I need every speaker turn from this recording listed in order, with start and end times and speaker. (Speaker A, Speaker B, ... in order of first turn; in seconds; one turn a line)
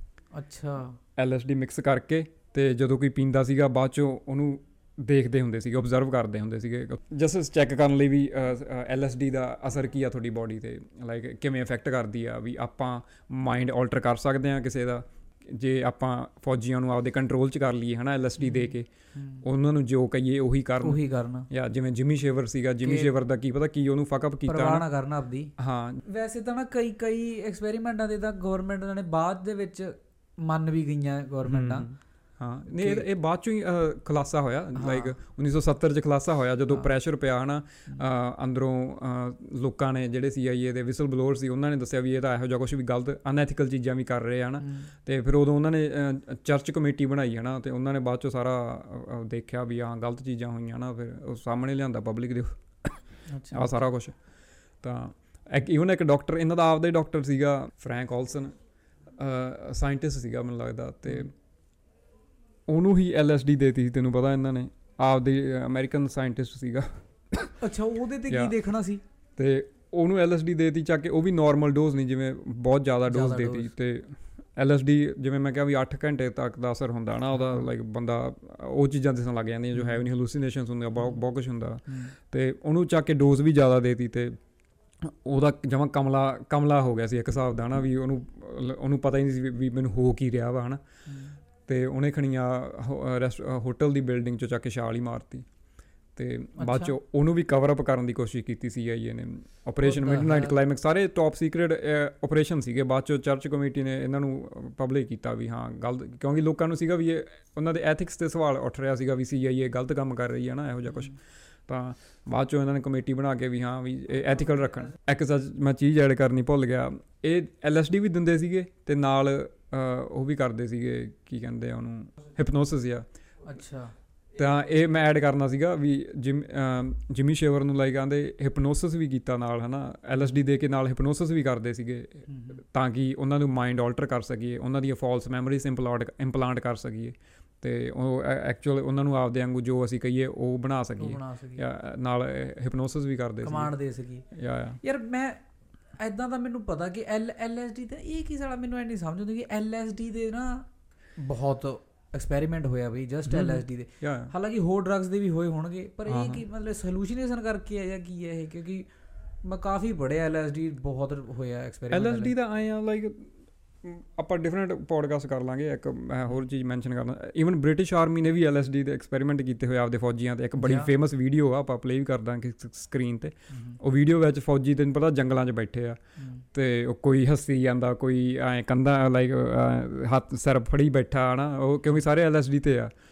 Speaker A: 0.3-1.0
Speaker B: 1.2-18.9
Speaker A: 18.4-19.4
Speaker B: 19.4-24.9
Speaker A: 20.8-21.5
Speaker A: 22.8-23.1
Speaker A: 24.5-25.5
Speaker B: 25.6-26.0
Speaker A: 26.0-31.9
Speaker B: 31.5-54.2
Speaker A: 32.7-33.0
Speaker A: 34.8-35.1
Speaker A: 44.6-44.9
Speaker A: 53.3-53.8
Speaker B: 54.8-58.6
Speaker B: 59.1-61.3
Speaker B: 62.7-67.6
Speaker A: 67.6-69.0
Speaker B: 68.3-68.5
Speaker B: 69.4-84.4
Speaker A: 73.1-73.7
Speaker A: 77.4-77.7
Speaker A: 79.7-80.0
Speaker A: 81.9-82.1
Speaker B: 85.0-90.8
Speaker A: 91.0-91.4
Speaker B: 91.7-95.5
Speaker B: 96.2-123.0
Speaker A: 96.6-96.9
Speaker A: 99.8-100.5
Speaker A: 123.4-123.9
Speaker B: 124.3-143.7
Speaker A: 132.3-132.6
Speaker A: 141.0-141.6
Speaker A: 143.4-144.2
Speaker B: 144.3-144.8
Speaker A: 144.8-145.4
Speaker A: 146.0-158.9
Speaker B: 153.3-154.3
Speaker B: 156.1-156.4
Speaker A: 159.4-162.3
Speaker B: 161.9-163.3
Speaker B: 163.8-176.0
Speaker A: 170.6-170.9
Speaker A: 173.5-173.8
Speaker A: 176.2-176.4
Speaker B: 176.5-182.9